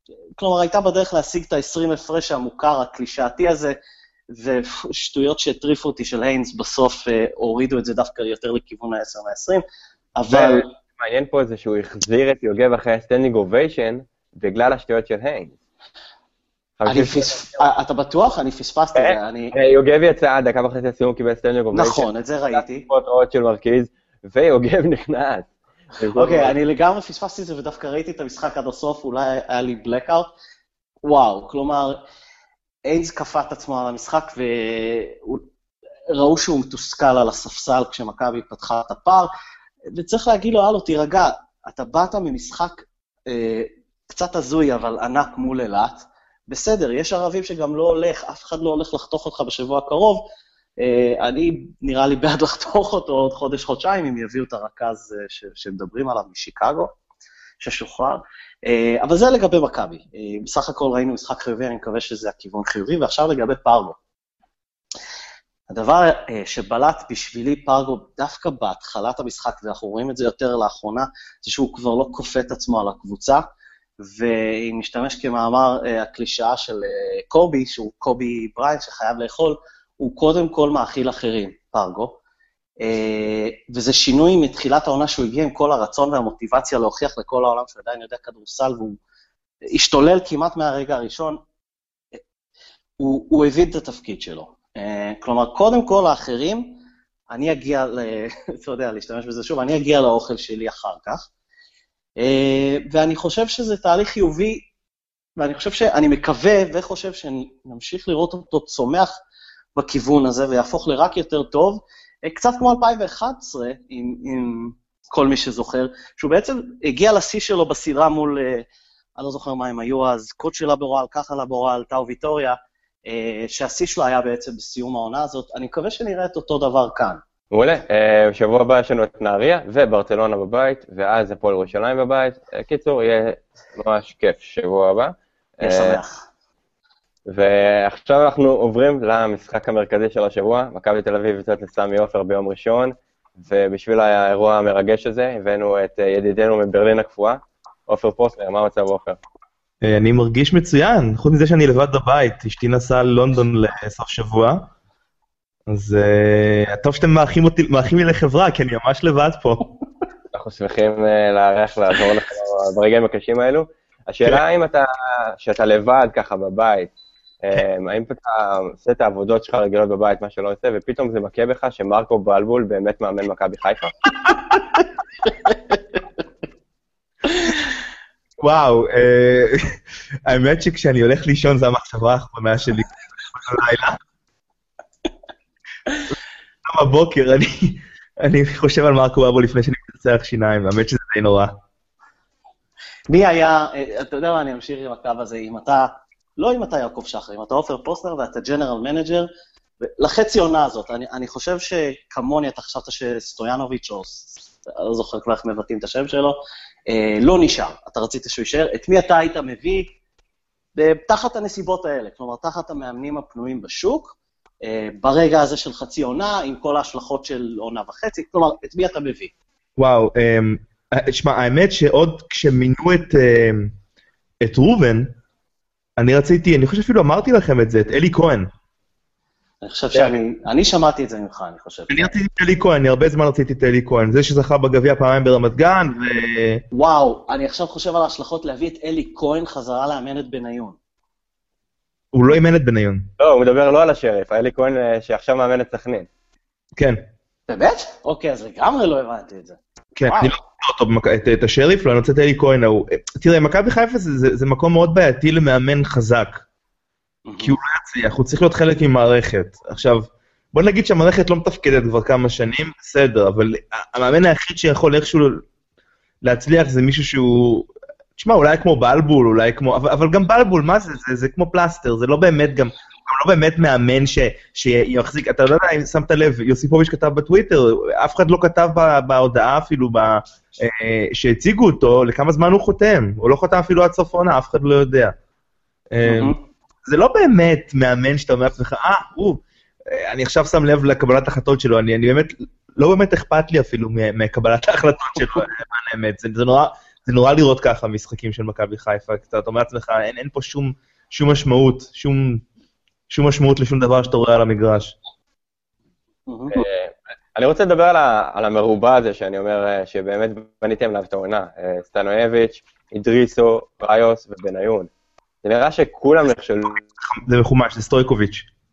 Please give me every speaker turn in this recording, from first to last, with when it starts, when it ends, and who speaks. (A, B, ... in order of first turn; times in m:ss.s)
0:00.4-0:03.8 A
0:04.3-0:09.6 A
0:10.2-0:10.7 A
0:10.3-0:15.6 B
0:16.8-0:17.6 B
0:16.9-0:19.6 A
0:19.0-0:26.6 B
0:21.7-0:22.9 A
0:26.2-0:30.3 A
0:31.0-0:32.0 A
0:32.9-0:35.5 A
0:36.1-0:39.3 A
0:39.9-0:50.2 A
0:50.8-0:56.9 A
0:57.6-1:04.0 A
1:05.7-1:13.4 A
1:14.0-1:22.2 A
1:22.8-1:29.0 A
1:29.7-1:31.4 A
1:33.0-1:36.8 A
1:37.3-1:41.2 A
1:42.2-1:44.7 A
1:45.4-1:49.1 A
1:49.8-1:58.7 A
1:59.2-2:07.2 A
2:07.5-2:16.0 B
2:15.6-2:16.2 A
2:17.3-2:29.2 B
2:29.8-2:34.7 C
2:35.7-2:39.7 C
2:40.3-2:46.9 B
2:47.4-2:54.0 B
2:58.4-3:04.0 C
3:06.6-3:11.6 C
3:13.1-3:19.3 A
3:19.8-3:30.0 A
3:30.8-3:39.3 A
3:39.8-3:43.8 C
3:44.4-3:45.2 C
3:46.0-3:48.5 C
3:49.6-3:52.2 A
3:51.9-3:56.6 C
3:56.7-4:00.8 A
4:02.1-4:03.1 C
4:03.2-4:06.1 B
4:06.8-4:07.0 C
4:07.5-4:10.4 A
4:10.0-4:16.4 C
4:17.3-4:17.6 A
4:17.4-4:25.4 C
4:26.2-4:45.2 C
4:45.9-5:02.4 C
4:46.0-4:46.4 A
5:03.1-5:05.0 C
5:06.3-5:06.6 A
5:06.5-5:14.9 B
5:15.4-5:16.9 B
5:17.0-5:18.5 C